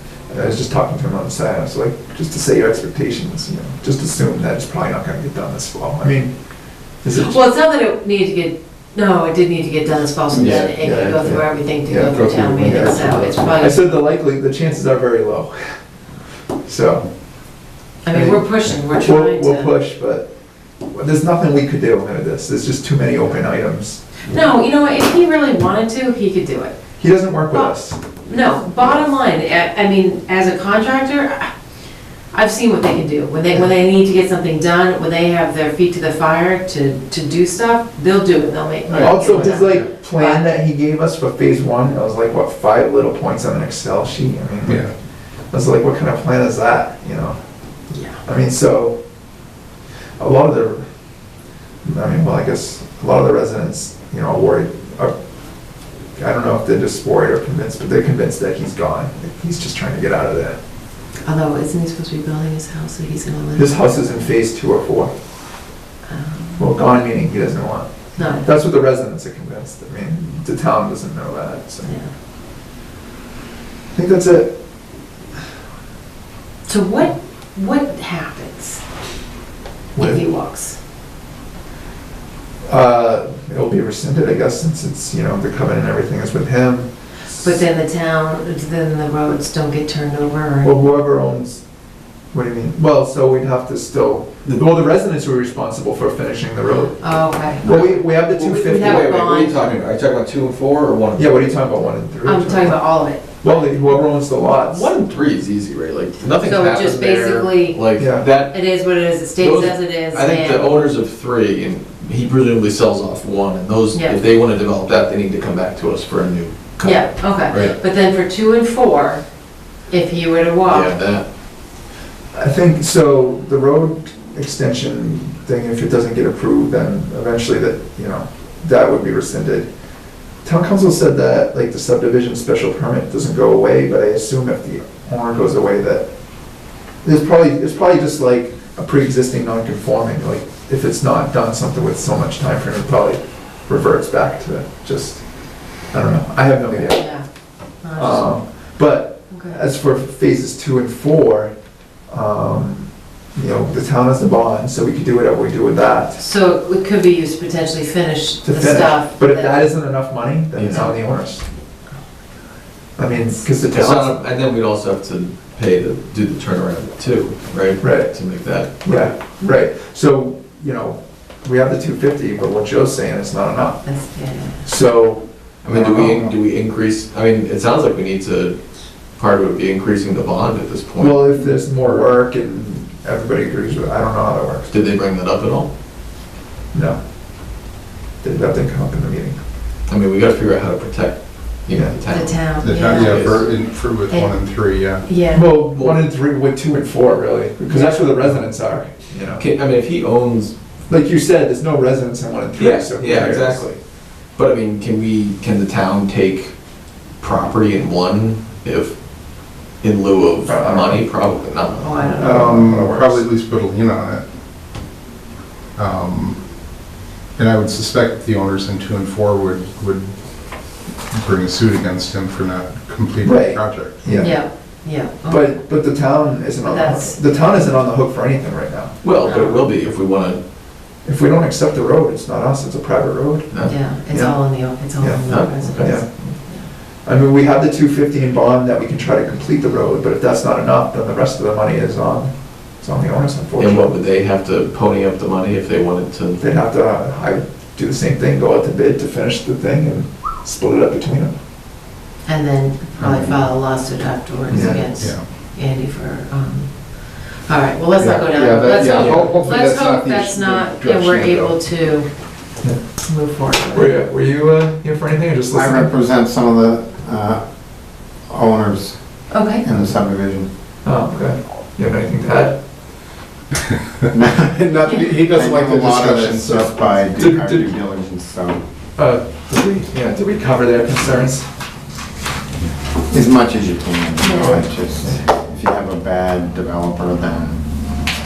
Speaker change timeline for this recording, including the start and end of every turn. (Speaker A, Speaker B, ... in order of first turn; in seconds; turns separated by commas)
Speaker A: 0.3-6.3, Speaker A: 7.0-7.4, Speaker B: 7.1-13.8, Speaker A: 10.3-15.8, Speaker C: 10.3-10.7, Speaker D: 12.2-13.4, Speaker A: 16.6-17.1, Speaker B: 18.0-19.7, Speaker A: 18.1-20.3, Speaker A: 20.9-24.2, Speaker B: 24.2-26.7, Speaker A: 27.0-28.0, Speaker B: 28.2-31.5, Speaker A: 28.6-29.0, Speaker B: 32.3-40.5, Speaker C: 38.9-39.2, Speaker A: 39.0-44.9, Speaker D: 44.7-44.9, Speaker A: 45.5-47.4, Speaker B: 47.9-48.2, Speaker A: 48.2-49.0, Speaker A: 50.2-50.8, Speaker A: 51.9-55.1, Speaker A: 56.2-60.6, Speaker B: 61.2-64.3, Speaker A: 63.6-65.1, Speaker B: 66.1-66.6, Speaker A: 66.6-71.9, Speaker B: 68.2-68.5, Speaker B: 71.8-72.1, Speaker A: 73.9-74.5, Speaker B: 76.7-78.8, Speaker A: 80.0-80.3, Speaker B: 80.0-80.8, Speaker A: 82.7-86.9, Speaker B: 87.4-90.7, Speaker A: 90.6-91.6, Speaker A: 92.3-99.1, Speaker B: 97.0-99.8, Speaker C: 97.6-101.7, Speaker A: 101.2-102.9, Speaker B: 102.2-103.9, Speaker A: 103.4-104.9, Speaker C: 104.5-108.6, Speaker B: 106.4-110.9, Speaker A: 108.0-108.3, Speaker C: 109.4-117.8, Speaker B: 116.8-119.2, Speaker B: 119.9-121.0, Speaker C: 120.7-121.2, Speaker A: 122.3-129.7, Speaker A: 130.4-136.1, Speaker A: 137.0-145.2, Speaker A: 145.9-147.1, Speaker B: 146.8-147.2, Speaker B: 147.8-148.4, Speaker A: 147.9-151.5, Speaker B: 149.3-149.6, Speaker A: 152.1-156.2, Speaker B: 156.2-159.7, Speaker A: 158.4-161.4, Speaker C: 160.6-160.9, Speaker B: 160.7-161.0, Speaker A: 163.0-164.2, Speaker C: 163.7-169.1, Speaker A: 167.8-173.9, Speaker B: 173.8-174.7, Speaker A: 174.6-176.2, Speaker C: 175.6-178.6, Speaker C: 179.1-181.3, Speaker A: 181.0-184.7, Speaker C: 184.7-185.7, Speaker A: 186.7-187.0, Speaker A: 188.2-189.4, Speaker C: 189.9-193.4, Speaker A: 191.7-191.9, Speaker B: 192.1-195.5, Speaker D: 192.6-195.1, Speaker A: 195.3-199.4, Speaker C: 195.7-196.0, Speaker C: 199.4-200.5, Speaker A: 200.9-203.8, Speaker C: 202.6-203.8, Speaker C: 204.3-206.5, Speaker C: 207.2-209.0, Speaker C: 209.8-212.1, Speaker A: 210.4-211.1, Speaker B: 211.8-212.8, Speaker A: 212.2-213.3, Speaker D: 212.2-214.2, Speaker D: 215.8-216.4, Speaker D: 217.4-220.1, Speaker D: 220.7-224.2, Speaker A: 223.2-224.4, Speaker B: 224.1-225.6, Speaker A: 225.3-228.9, Speaker B: 226.6-227.7, Speaker C: 229.0-230.4, Speaker B: 229.2-229.6, Speaker A: 231.0-236.3, Speaker B: 233.7-236.7, Speaker C: 235.3-236.0, Speaker A: 237.1-244.0, Speaker C: 243.6-246.5, Speaker A: 246.4-251.3, Speaker B: 252.2-262.2, Speaker A: 254.5-254.9, Speaker D: 254.6-255.2, Speaker D: 258.0-261.6, Speaker C: 258.9-259.2, Speaker B: 263.0-264.0, Speaker A: 263.7-265.9, Speaker E: 265.5-269.0, Speaker B: 269.3-269.7, Speaker E: 269.6-270.5, Speaker A: 270.8-272.6, Speaker E: 274.1-278.6, Speaker D: 274.4-277.2, Speaker A: 277.1-277.7, Speaker A: 279.0-281.5, Speaker E: 283.1-287.6, Speaker B: 284.2-284.6, Speaker A: 284.3-285.2